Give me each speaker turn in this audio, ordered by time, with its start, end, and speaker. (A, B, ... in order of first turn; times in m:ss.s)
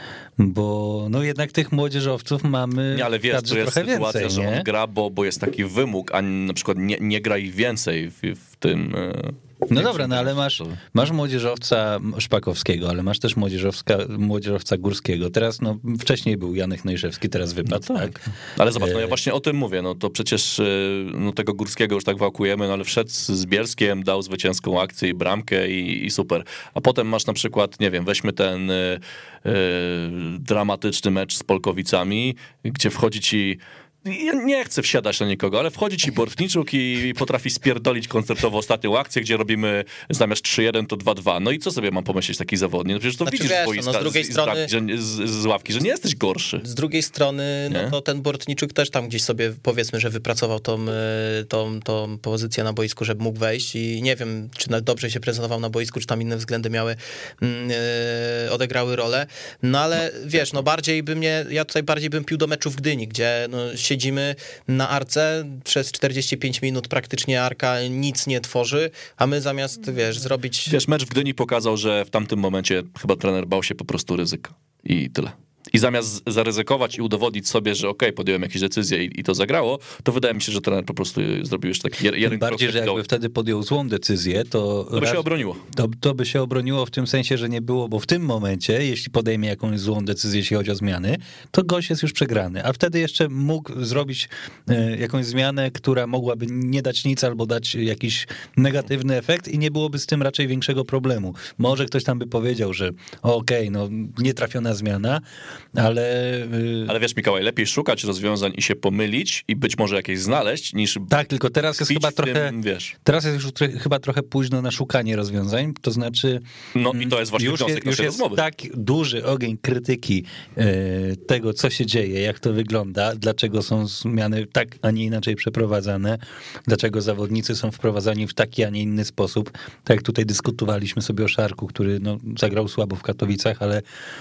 0:00.4-0:04.7 A
0:02.9-0:10.8 B
0:09.7-0:18.2 A
0:17.7-0:46.6 B
0:18.8-0:19.2 A
0:43.2-0:44.7 C
0:46.6-1:10.8 C
0:47.7-0:47.9 B
1:10.7-1:23.0 B
1:22.2-1:45.2 A
1:24.9-1:25.6 B
1:45.7-1:46.9 A
1:46.9-1:51.1 B
1:51.1-2:13.8 A
1:51.8-1:52.9 B
1:56.7-1:58.4 B